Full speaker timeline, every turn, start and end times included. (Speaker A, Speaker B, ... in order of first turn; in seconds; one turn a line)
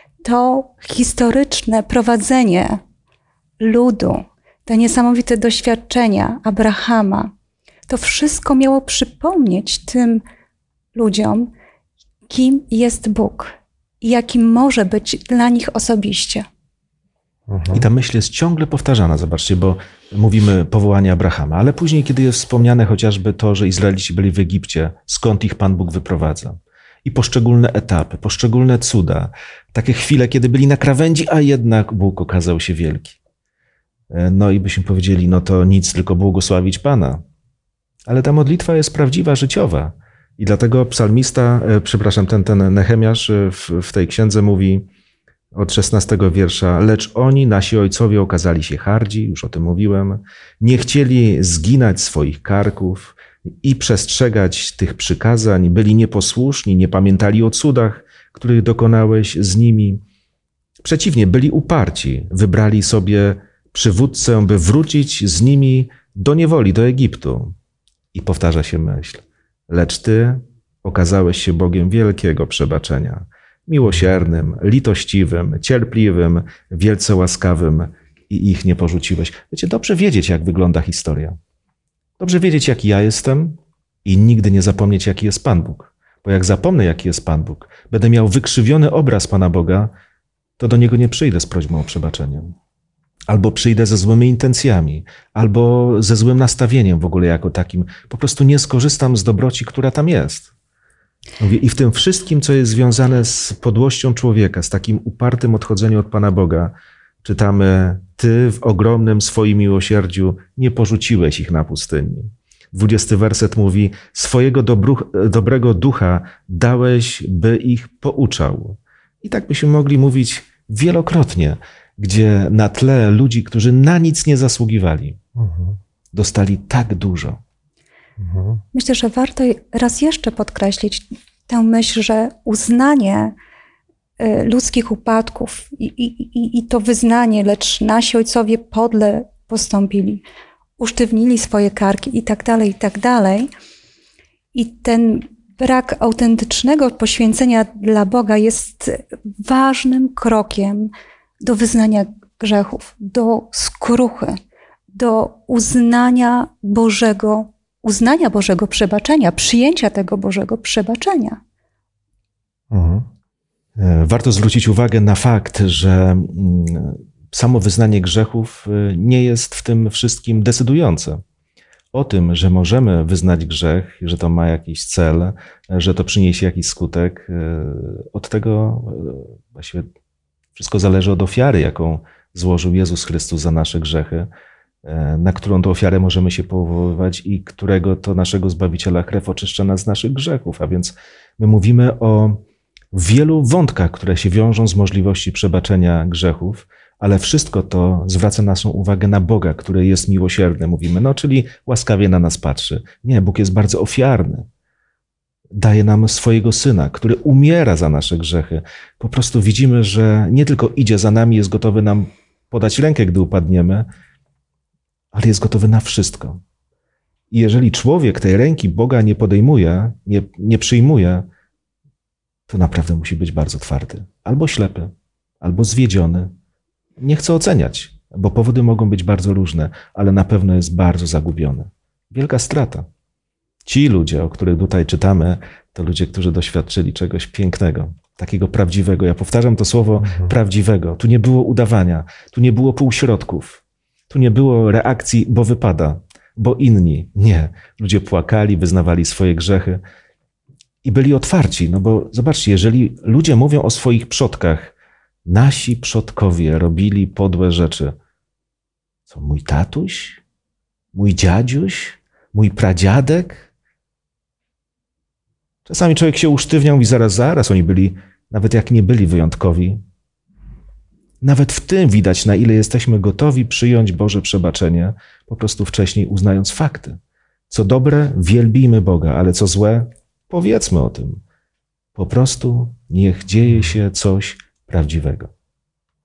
Speaker A: 0.2-2.8
Speaker A: 3.6-7.3
Speaker A: 7.9-10.2
Speaker A: 10.9-11.5
Speaker A: 12.3-16.4
Speaker B: 17.5-17.9
Speaker C: 17.7-33.2
Speaker C: 34.1-37.2
Speaker C: 38.0-44.9
Speaker C: 45.5-60.0
Speaker C: 60.8-67.5
Speaker C: 68.1-81.4
Speaker C: 82.2-89.9
Speaker C: 90.6-92.5
Speaker C: 93.3-100.5
Speaker C: 101.4-125.2
Speaker B: 125.4-125.8
Speaker C: 126.1-127.4
Speaker B: 128.2-128.6
Speaker A: 128.7-133.3
Speaker A: 134.2-140.2
Speaker A: 140.8-143.5
Speaker A: 144.5-154.4
Speaker A: 154.9-161.4
Speaker B: 162.7-163.1
Speaker C: 163.8-171.2
Speaker C: 171.9-179.9
Speaker C: 180.6-184.3
Speaker C: 184.8-204.5
Speaker C: 205.5-213.9
Speaker C: 215.1-216.4
Speaker C: 217.3-221.3
Speaker C: 222.5-226.3
Speaker C: 227.0-232.9
Speaker C: 233.7-249.8
Speaker B: 240.0-240.3
Speaker C: 250.8-254.7
Speaker C: 255.2-258.0
Speaker C: 259.1-260.2
Speaker C: 260.9-263.5
Speaker C: 265.6-269.8
Speaker C: 271.2-281.2
Speaker C: 281.9-285.3